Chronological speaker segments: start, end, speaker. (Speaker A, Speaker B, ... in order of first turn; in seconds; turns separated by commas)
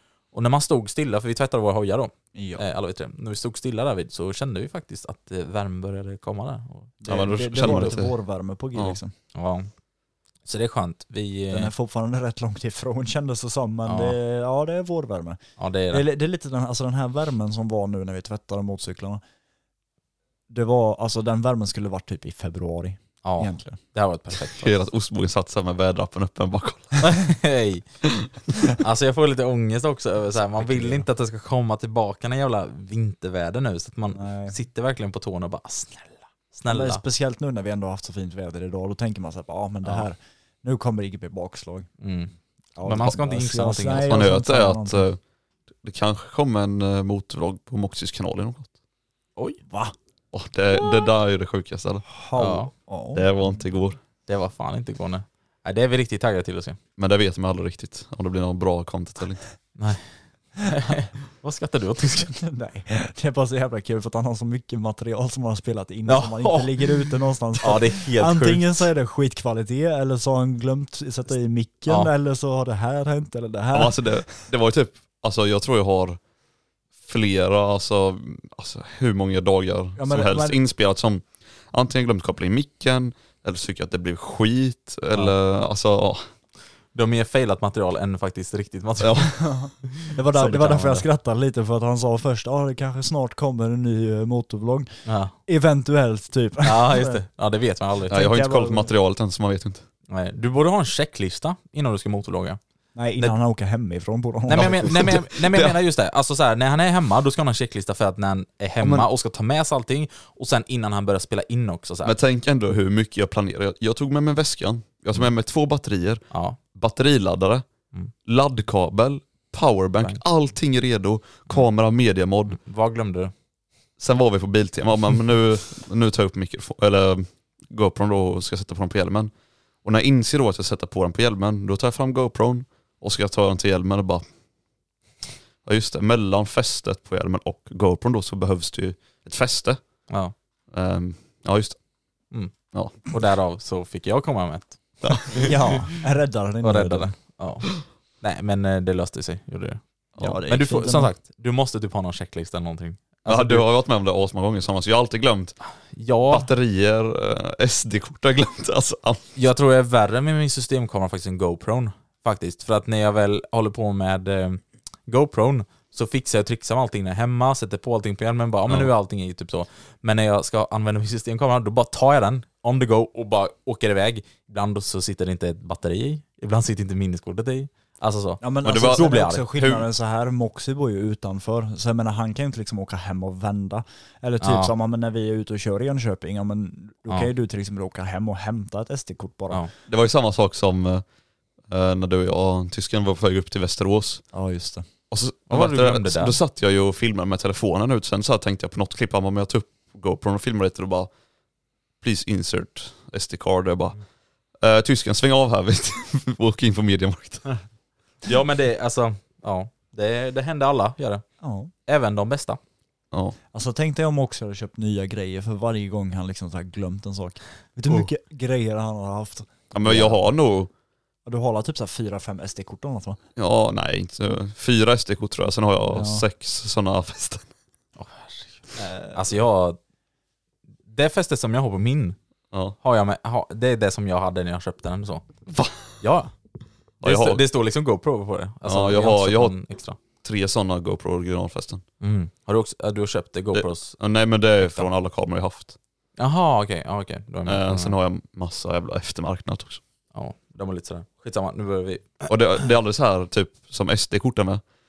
Speaker A: 0.3-7.0, Speaker B: 2.3-2.6, Speaker B: 7.0-9.1, Speaker C: 7.1-8.2, Speaker A: 7.6-7.9, Speaker A: 9.3-9.7, Speaker A: 10.4-11.7, Speaker B: 11.5-19.2, Speaker A: 13.9-14.2, Speaker A: 15.6-16.1, Speaker B: 20.5-23.8, Speaker A: 23.2-24.8, Speaker C: 24.5-27.0, Speaker A: 27.0-27.9, Speaker A: 28.8-37.0, Speaker B: 30.4-31.1, Speaker B: 34.1-34.5, Speaker B: 36.7-41.9, Speaker A: 42.0-44.1, Speaker B: 42.8-45.1, Speaker C: 44.1-45.2, Speaker C: 45.8-48.7, Speaker B: 49.7-50.0, Speaker C: 50.3-52.1, Speaker B: 52.1-53.3, Speaker A: 52.4-52.7, Speaker C: 53.1-54.0, Speaker A: 54.3-56.8, Speaker C: 57.0-59.5, Speaker A: 59.8-60.1, Speaker A: 60.7-62.3, Speaker B: 62.3-74.1, Speaker A: 66.1-67.0, Speaker A: 67.6-68.8, Speaker C: 73.7-76.2, Speaker C: 77.0-86.3, Speaker B: 80.0-80.6, Speaker A: 86.9-89.4, Speaker C: 89.0-89.3, Speaker B: 89.4-95.0, Speaker A: 90.3-91.0, Speaker A: 95.1-95.3, Speaker B: 95.5-97.2, Speaker A: 96.6-98.2, Speaker C: 98.1-99.8, Speaker B: 98.1-98.9, Speaker A: 100.1-102.6, Speaker B: 103.0-105.2, Speaker A: 104.5-112.2, Speaker C: 104.6-105.8, Speaker C: 112.0-117.7, Speaker A: 116.3-116.6, Speaker C: 118.3-122.6, Speaker A: 122.5-123.3, Speaker C: 124.0-129.3, Speaker C: 129.8-134.2, Speaker C: 135.7-139.8, Speaker A: 140.1-140.3, Speaker C: 140.7-141.8, Speaker C: 142.7-143.2, Speaker A: 143.1-145.4, Speaker C: 145.0-145.8, Speaker B: 145.4-147.2, Speaker A: 146.6-149.8, Speaker B: 150.2-151.1, Speaker A: 150.5-153.7, Speaker C: 153.3-155.6, Speaker A: 155.9-156.5, Speaker C: 156.3-159.3, Speaker A: 159.4-179.4, Speaker B: 178.4-189.6, Speaker C: 178.6-179.9, Speaker A: 184.4-184.7, Speaker C: 189.9-191.0, Speaker C: 191.7-194.2, Speaker B: 194.3-194.8, Speaker C: 195.1-201.1, Speaker A: 195.5-196.4, Speaker C: 202.0-204.0, Speaker C: 204.6-207.5, Speaker A: 208.2-211.2, Speaker B: 211.4-211.7, Speaker A: 211.9-212.6, Speaker C: 213.1-213.4, Speaker B: 213.5-220.2, Speaker C: 219.7-220.7, Speaker B: 221.3-223.2, Speaker C: 223.4-227.5, Speaker B: 225.9-226.2, Speaker A: 228.0-229.8, Speaker B: 228.8-229.2, Speaker A: 230.9-232.2, Speaker C: 232.5-232.8, Speaker A: 232.8-235.3, Speaker C: 235.5-235.9, Speaker A: 236.0-236.3, Speaker C: 237.0-237.4, Speaker A: 237.0-240.0, Speaker C: 238.7-239.6, Speaker C: 240.2-241.8, Speaker A: 242.0-244.0, Speaker C: 243.5-245.8, Speaker A: 244.6-244.9, Speaker A: 246.2-247.9, Speaker C: 247.5-249.8, Speaker A: 250.1-252.3, Speaker C: 252.3-254.6